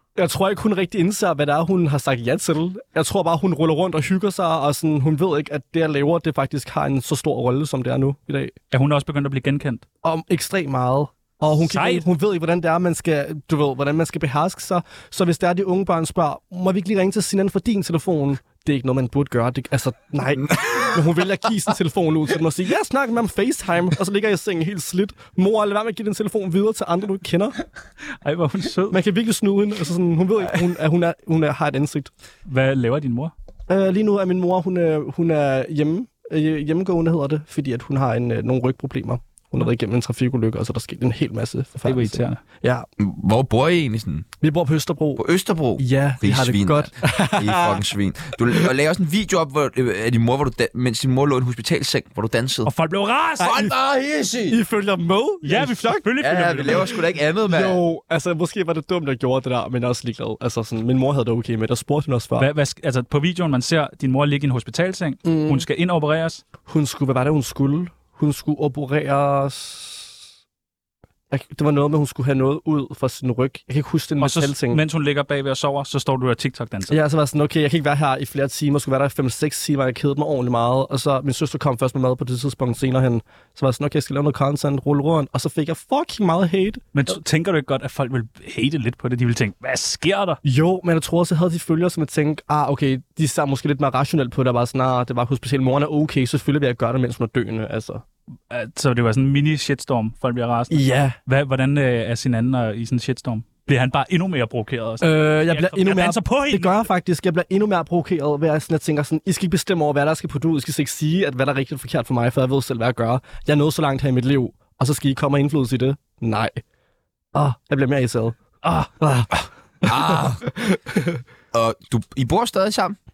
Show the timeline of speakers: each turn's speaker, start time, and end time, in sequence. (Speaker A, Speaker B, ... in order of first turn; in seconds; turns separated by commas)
Speaker A: 0.2-8.6, Speaker B: 8.7-9.8, Speaker A: 10.0-27.6, Speaker B: 11.6-12.1, Speaker C: 20.5-21.0, Speaker B: 28.2-29.0, Speaker A: 28.9-32.1, Speaker B: 32.5-33.3, Speaker A: 33.7-42.9, Speaker B: 41.9-42.4, Speaker C: 43.0-44.3, Speaker A: 44.4-45.2, Speaker C: 45.2-52.7, Speaker A: 45.8-47.8, Speaker B: 52.6-53.6, Speaker C: 53.4-54.6, Speaker A: 54.5-56.1, Speaker B: 55.4-56.9, Speaker C: 56.2-57.8, Speaker A: 57.5-62.5, Speaker B: 62.4-66.4, Speaker A: 65.2-65.7, Speaker A: 66.7-70.1, Speaker A: 71.3-74.8, Speaker B: 74.2-77.0, Speaker A: 76.9-87.1, Speaker B: 86.9-90.4, Speaker A: 90.4-98.0, Speaker B: 98.5-106.9, Speaker A: 100.7-101.2, Speaker A: 105.0-116.6, Speaker A: 117.3-118.4, Speaker B: 118.6-118.9, Speaker A: 119.0-121.2, Speaker C: 119.8-120.4, Speaker C: 121.5-123.0